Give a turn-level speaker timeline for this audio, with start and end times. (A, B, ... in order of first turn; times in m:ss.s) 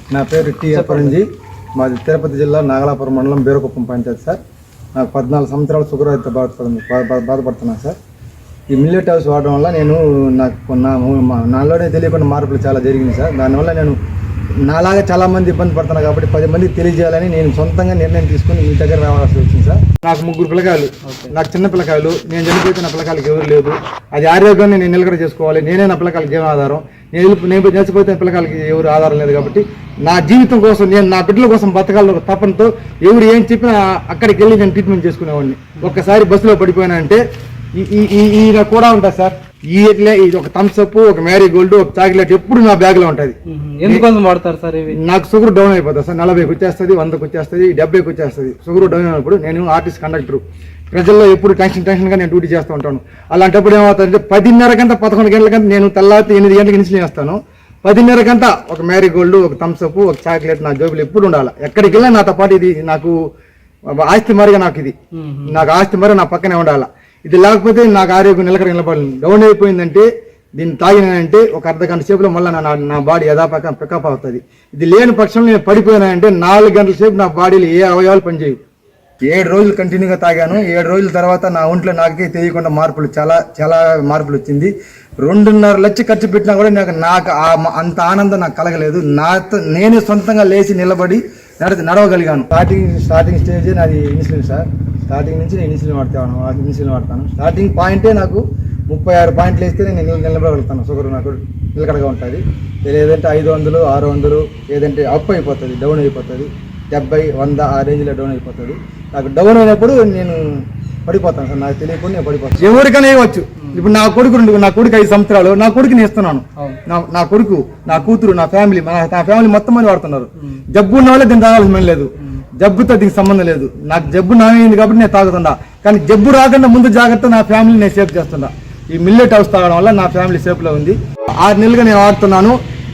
0:00.1-0:01.2 A
0:00.7-0:01.2 B
0:01.8-0:04.4 A
0:05.0-0:08.0 A
0:08.7-0:14.0 A
0:14.7-0:37.2 A
0:21.0-0:21.3 B
0:35.8-0:36.1 B
0:37.8-0:44.1 A
0:43.5-0:45.0 B
0:45.0-1:03.2 A
1:04.0-1:04.9 A
1:05.1-1:05.6 B
1:05.5-1:18.6 A
1:19.2-2:12.6 A
1:53.6-1:53.9 B